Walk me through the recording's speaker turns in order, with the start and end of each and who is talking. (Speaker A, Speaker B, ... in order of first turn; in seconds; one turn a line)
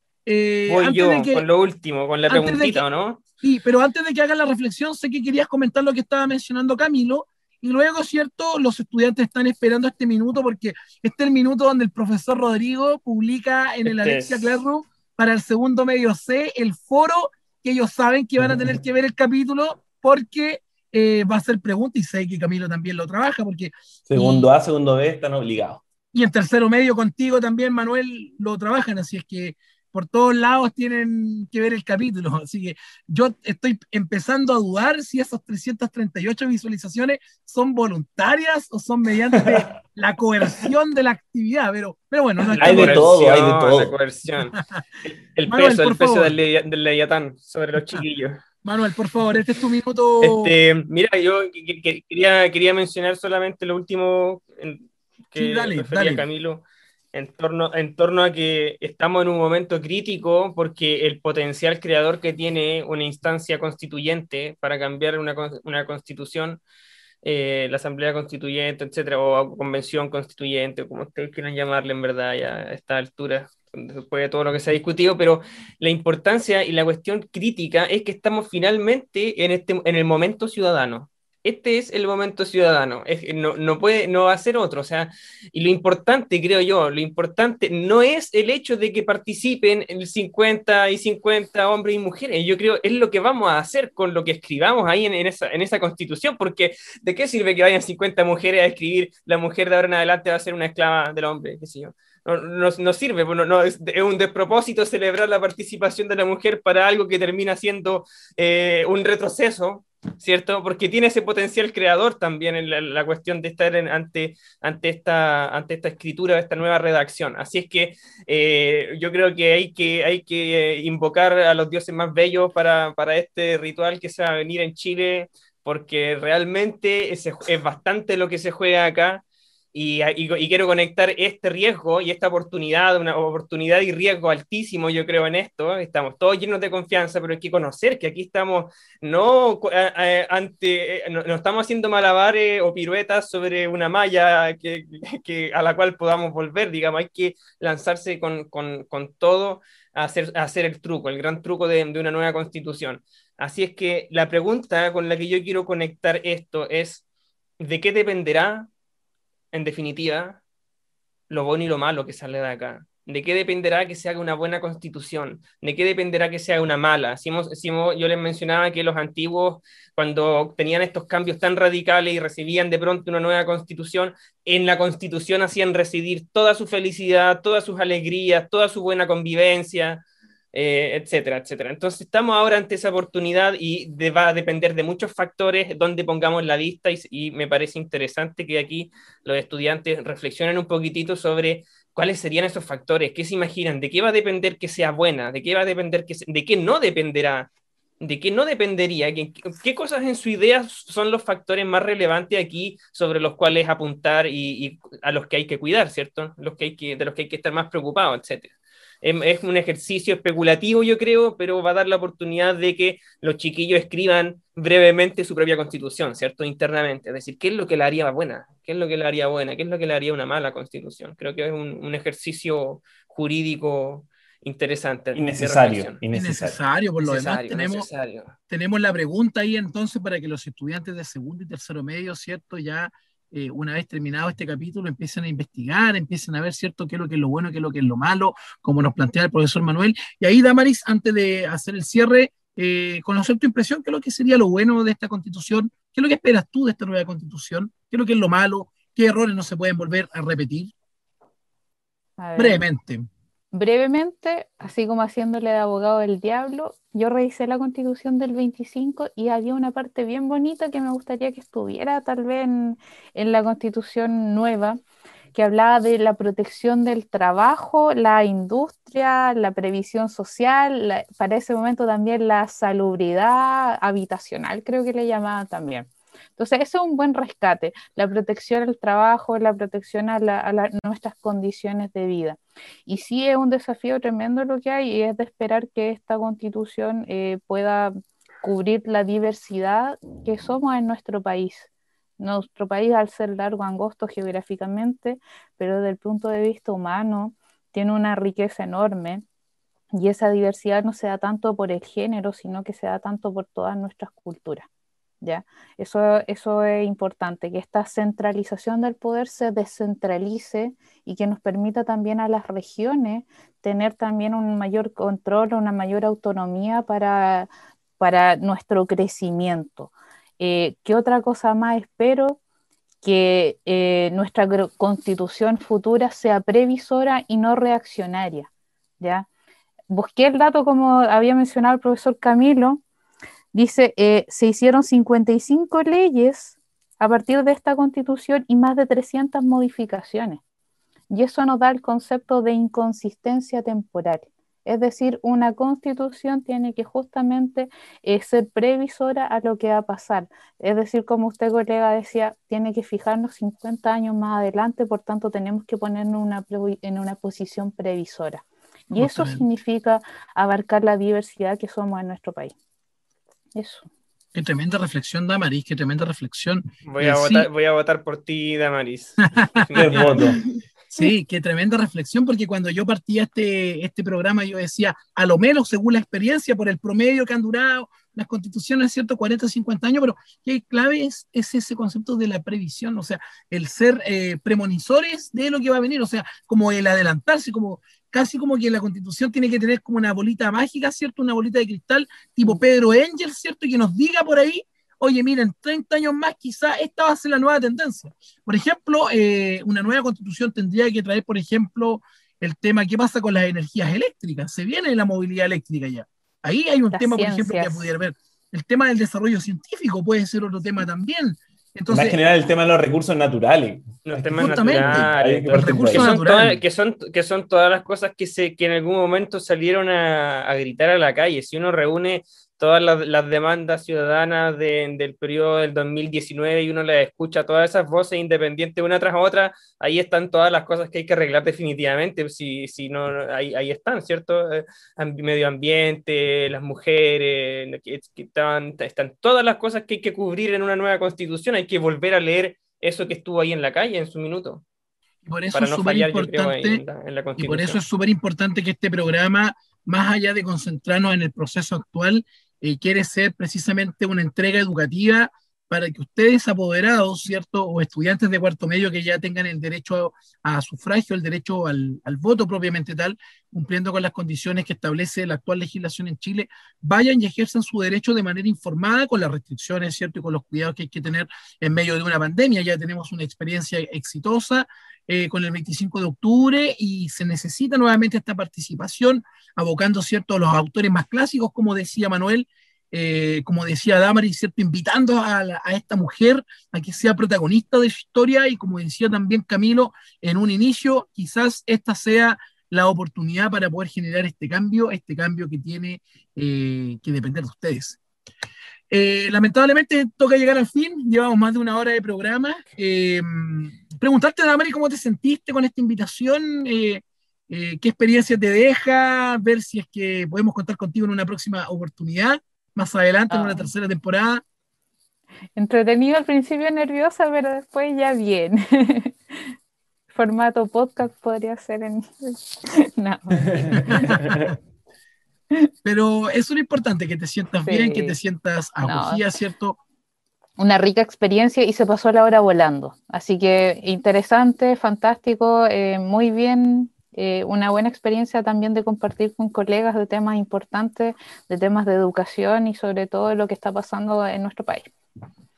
Speaker A: 0.2-1.4
Speaker B: 0.7-3.2
Speaker A: 2.3-2.8
Speaker A: 3.4-24.5
Speaker B: 13.8-14.5
Speaker C: 24.1-25.8
Speaker A: 26.1-43.1
Speaker C: 42.5-43.9
Speaker B: 42.6-48.4
Speaker A: 45.5-46.3
Speaker A: 48.6-50.5
Speaker B: 50.2-66.6
Speaker A: 55.4-56.2
Speaker B: 67.2-157.0
Speaker B: 157.6-158.7
Speaker B: 159.5-160.4
Speaker B: 161.3-197.5
Speaker B: 198.0-226.0
Speaker C: 225.1-226.6
Speaker A: 226.1-227.9
Speaker B: 227.0-228.3
Speaker A: 228.5-250.7
Speaker D: 252.2-252.6
Speaker A: 252.3-253.1
Speaker D: 253.5-264.8
Speaker D: 265.3-299.2
Speaker D: 299.9-304.7
Speaker D: 305.2-322.4
Speaker D: 323.0-328.5
Speaker D: 329.0-329.3
Speaker D: 329.9-332.8
Speaker D: 333.5-340.4
Speaker D: 341.1-362.5
Speaker A: 358.9-359.4
Speaker D: 363.5-363.9
Speaker A: 364.3-367.5
Speaker B: 366.9-370.3
Speaker A: 369.2-370.4
Speaker C: 369.8-370.4
Speaker A: 370.9-412.2
Speaker D: 406.9-407.9
Speaker C: 411.9-416.1
Speaker B: 414.0-444.6
Speaker A: 414.4-416.6
Speaker A: 445.2-446.8
Speaker B: 445.5-447.8
Speaker A: 447.4-498.0
Speaker A: 498.9-514.4
Speaker D: 513.3-513.7
Speaker D: 515.5-519.4
Speaker D: 520.1-524.4
Speaker C: 523.5-524.5
Speaker A: 523.7-524.5
Speaker A: 525.8-529.8
Speaker D: 527.6-528.2
Speaker D: 528.8-529.3
Speaker D: 530.6-544.9